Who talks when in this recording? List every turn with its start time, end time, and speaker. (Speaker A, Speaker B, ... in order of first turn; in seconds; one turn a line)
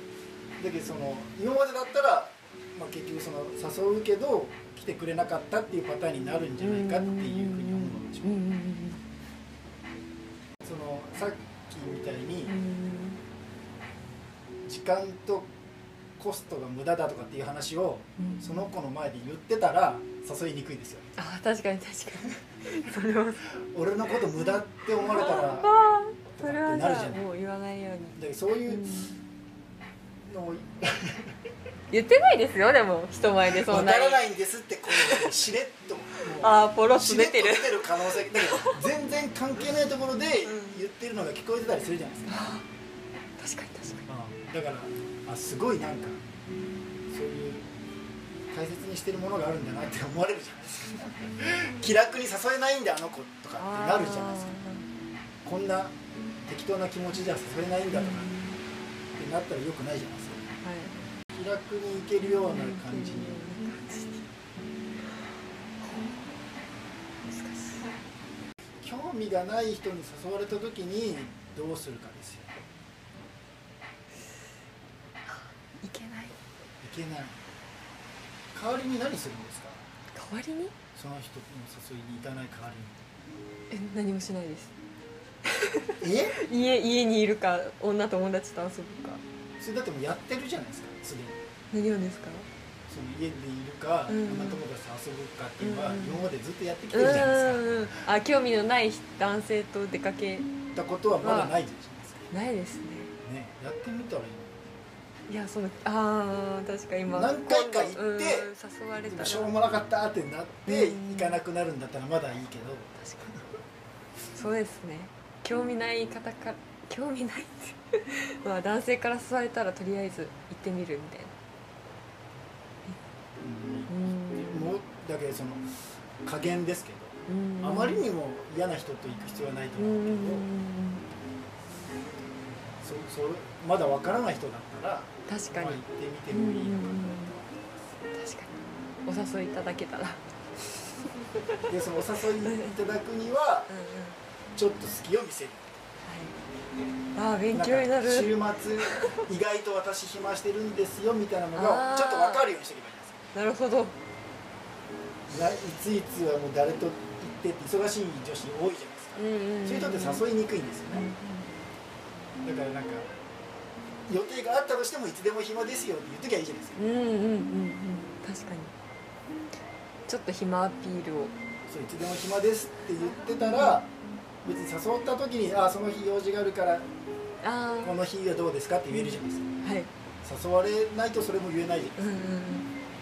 Speaker A: 0.6-8.4
Speaker B: 6.6-9.0
Speaker A: 10.6-12.5
Speaker B: 12.4-13.2
Speaker A: 14.6-15.5
Speaker A: 16.2-21.1
Speaker B: 18.2-18.7
Speaker B: 21.1-23.4
Speaker A: 23.6-25.7
Speaker B: 25.0-29.2
Speaker A: 26.4-27.2
Speaker A: 28.1-28.9
Speaker A: 30.3-31.3
Speaker B: 31.9-34.2
Speaker A: 33.5-42.5
Speaker B: 34.9-35.3
Speaker B: 36.4-38.8
Speaker B: 40.4-40.8
Speaker B: 42.3-42.6
Speaker B: 43.4-44.1
Speaker A: 44.1-46.2
Speaker A: 47.1-47.7
Speaker A: 48.5-54.6
Speaker B: 53.6-54.9
Speaker A: 55.4-58.4
Speaker B: 57.9-58.6
Speaker A: 59.2-60.5
Speaker B: 60.6-61.0
Speaker A: 61.3-63.5
Speaker B: 62.2-64.3
Speaker B: 65.8-66.2
Speaker B: 67.2-67.9
Speaker A: 68.8-72.5
Speaker B: 75.3-76.3
Speaker A: 76.8-77.4
Speaker A: 78.5-79.8
Speaker B: 80.1-80.7
Speaker A: 80.9-83.0
Speaker B: 83.7-84.7
Speaker B: 85.5-89.2
Speaker A: 86.0-86.4
Speaker A: 89.6-91.4
Speaker B: 91.7-92.5
Speaker A: 92.9-97.8
Speaker B: 94.1-94.6
Speaker B: 95.6-96.3
Speaker B: 96.9-100.5
Speaker A: 100.7-102.3
Speaker B: 101.2-101.6
Speaker B: 102.3-103.1
Speaker A: 103.2-104.7
Speaker B: 105.3-109.5
Speaker A: 107.1-112.9
Speaker B: 110.7-111.4
Speaker B: 113.0-113.3
Speaker B: 114.3-121.3
Speaker A: 123.4-130.5
Speaker B: 123.9-124.7
Speaker B: 127.3-128.0
Speaker B: 129.8-131.0
Speaker A: 132.8-137.9
Speaker B: 135.3-137.3
Speaker B: 138.1-140.2
Speaker A: 141.7-143.7
Speaker B: 142.3-142.8
Speaker B: 143.7-144.2
Speaker A: 144.5-145.7
Speaker B: 146.0-146.4
Speaker B: 147.1-149.2
Speaker A: 147.5-153.2
Speaker B: 151.5-152.5
Speaker B: 153.3-153.9
Speaker A: 155.3-161.1
Speaker B: 159.2-160.2
Speaker B: 160.9-161.5
Speaker A: 162.4-163.1
Speaker A: 164.1-166.8
Speaker B: 166.8-168.7
Speaker B: 170.1-171.3
Speaker A: 171.7-173.9
Speaker A: 174.4-176.9
Speaker B: 177.4-178.0
Speaker A: 177.8-179.5
Speaker B: 179.6-179.9
Speaker A: 180.2-182.0
Speaker B: 182.0-182.7